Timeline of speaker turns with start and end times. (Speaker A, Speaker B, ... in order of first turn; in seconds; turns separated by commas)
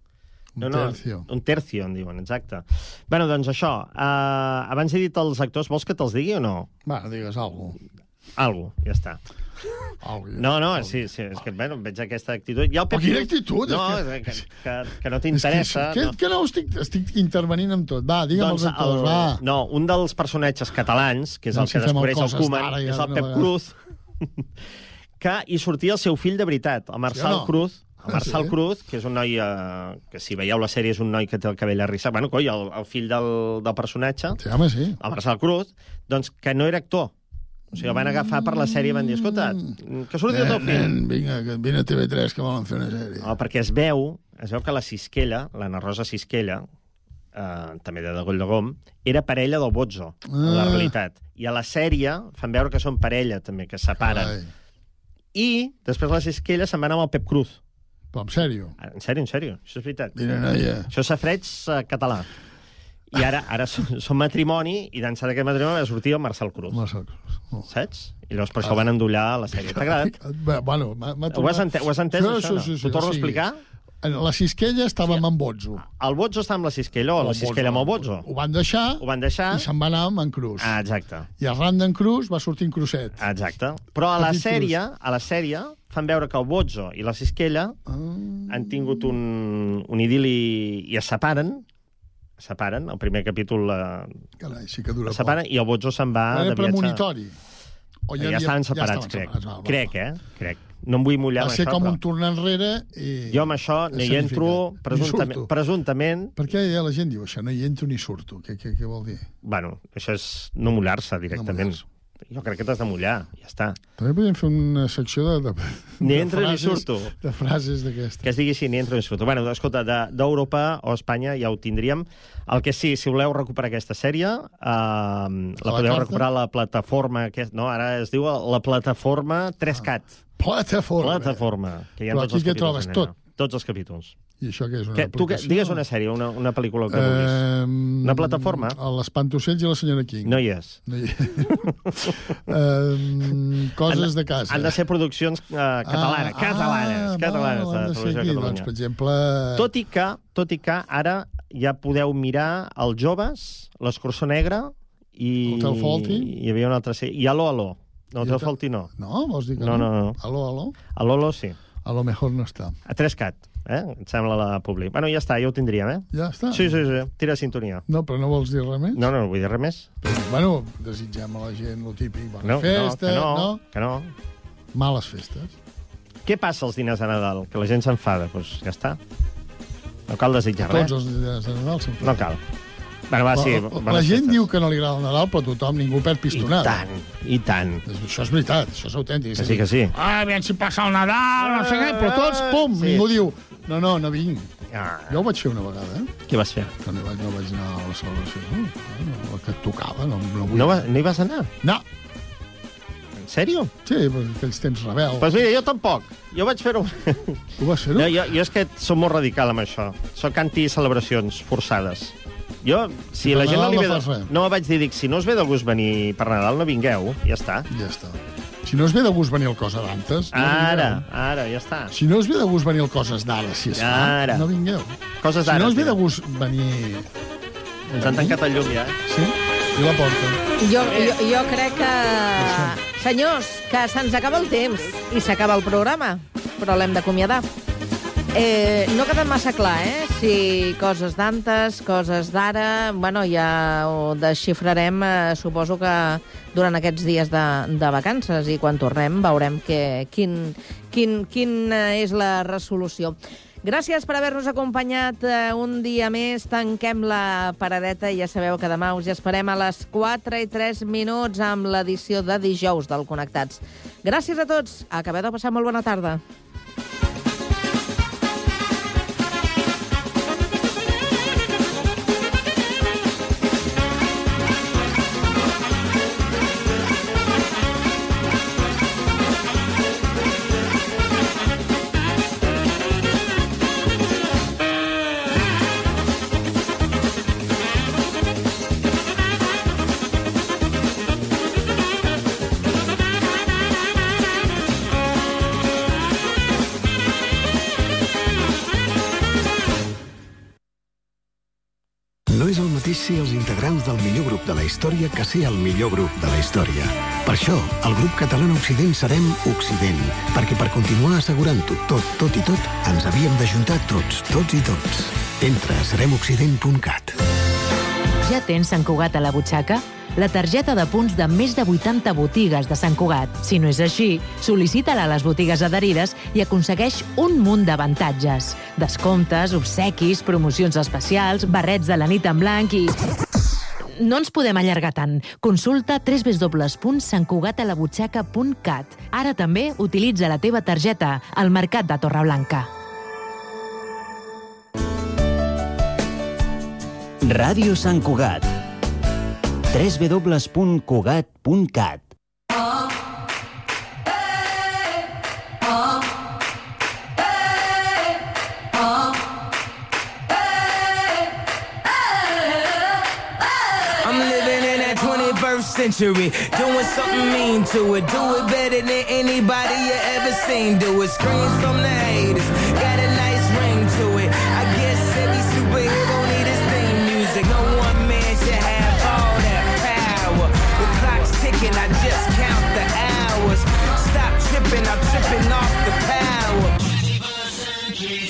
Speaker A: 0.6-1.3, Speaker B: 0.6-6.7, Speaker A: 6.8-7.8, Speaker B: 8.4-9.2, Speaker A: 10.0-11.1, Speaker B: 10.4-16.1, Speaker A: 12.9-14.5, Speaker A: 15.3-19.4, Speaker B: 18.3-23.7, Speaker A: 21.5-23.5, Speaker B: 25.2-34.4, Speaker A: 27.1-28.5, Speaker A: 34.4-35.0, Speaker B: 35.0-37.1, Speaker B: 37.7-40.9, Speaker A: 37.8-43.3, Speaker B: 43.2-46.6, Speaker B: 47.3-54.4, Speaker A: 50.2-50.9, Speaker A: 54.0-54.5, Speaker B: 55.3-57.6, Speaker A: 58.1-58.7, Speaker B: 58.8-60.1, Speaker A: 60.1-60.9, Speaker B: 60.9-62.3, Speaker B: 63.1-66.8, Speaker A: 66.7-67.7, Speaker B: 67.7-70.2, Speaker A: 68.6-68.9, Speaker A: 69.5-73.5, Speaker B: 71.3-73.6, Speaker A: 74.0-75.8, Speaker B: 75.8-78.3, Speaker A: 77.2-80.7, Speaker B: 79.0-79.7, Speaker B: 80.6-81.3, Speaker A: 81.4-83.2, Speaker B: 83.2-87.7, Speaker A: 84.2-84.7, Speaker A: 87.9-89.1, Speaker B: 88.5-91.6, Speaker B: 92.4-94.1, Speaker A: 94.4-95.4, Speaker B: 95.0-97.0, Speaker A: 96.3-97.4, Speaker A: 98.1-99.9, Speaker B: 98.2-102.0, Speaker A: 101.4-105.5, Speaker B: 103.3-106.3, Speaker A: 106.4-109.3, Speaker B: 109.4-113.8, Speaker A: 111.3-111.8, Speaker A: 114.0-118.2, Speaker B: 116.0-117.1, Speaker B: 118.2-130.2, Speaker A: 125.7-126.2, Speaker A: 130.4-131.4, Speaker B: 131.0-134.2, Speaker A: 132.1-133.2, Speaker A: 134.4-135.8, Speaker B: 134.9-137.5, Speaker A: 136.9-141.6, Speaker B: 138.0-138.8, Speaker B: 140.2-140.8, Speaker A: 142.3-144.8, Speaker B: 143.8-148.7, Speaker A: 145.9-149.7, Speaker B: 149.6-158.9, Speaker A: 155.4-156.3, Speaker A: 158.2-160.8, Speaker B: 159.6-160.2, Speaker B: 160.9-161.6, Speaker A: 161.8-162.8, Speaker B: 162.9-167.8, Speaker A: 166.1-166.8, Speaker A: 167.9-169.0, Speaker B: 168.9-169.9, Speaker A: 170.0-173.6, Speaker B: 172.4-174.1, Speaker A: 174.7-175.5, Speaker B: 176.2-179.0, Speaker B: 180.1-180.9, Speaker A: 180.6-182.3, Speaker B: 182.0-182.4, Speaker B: 183.1-184.4, Speaker A: 183.3-186.8, Speaker B: 186.3-187.8, Speaker A: 187.9-194.5, Speaker B: 189.3-189.9, Speaker B: 191.4-193.1, Speaker B: 194.7-195.2, Speaker A: 195.1-196.1, Speaker B: 196.2-196.7, Speaker A: 196.8-200.9, Speaker B: 200.5-201.5, Speaker B: 203.2-203.7, Speaker A: 203.8-205.4, Speaker B: 205.2-207.4, Speaker A: 207.6-208.1, Speaker B: 207.9-217.7, Speaker A: 213.2-214.3, Speaker A: 217.7-221.0, Speaker B: 220.3-221.9, Speaker A: 221.9-227.1, Speaker B: 223.7-224.5, Speaker B: 225.2-226.0, Speaker A: 227.9-228.4, Speaker B: 228.0-228.9, Speaker A: 229.1-230.4, Speaker C: 230.6-237.4, Speaker A: 232.4-232.8, Speaker C: 238.3-266.2, Speaker D: 302.3-317.1, Speaker E: 318.2-333.0, Speaker E: 334.0-342.7, Speaker F: 347.2-348.5, Speaker F: 349.7-352.1, Speaker G: 364.1-386.7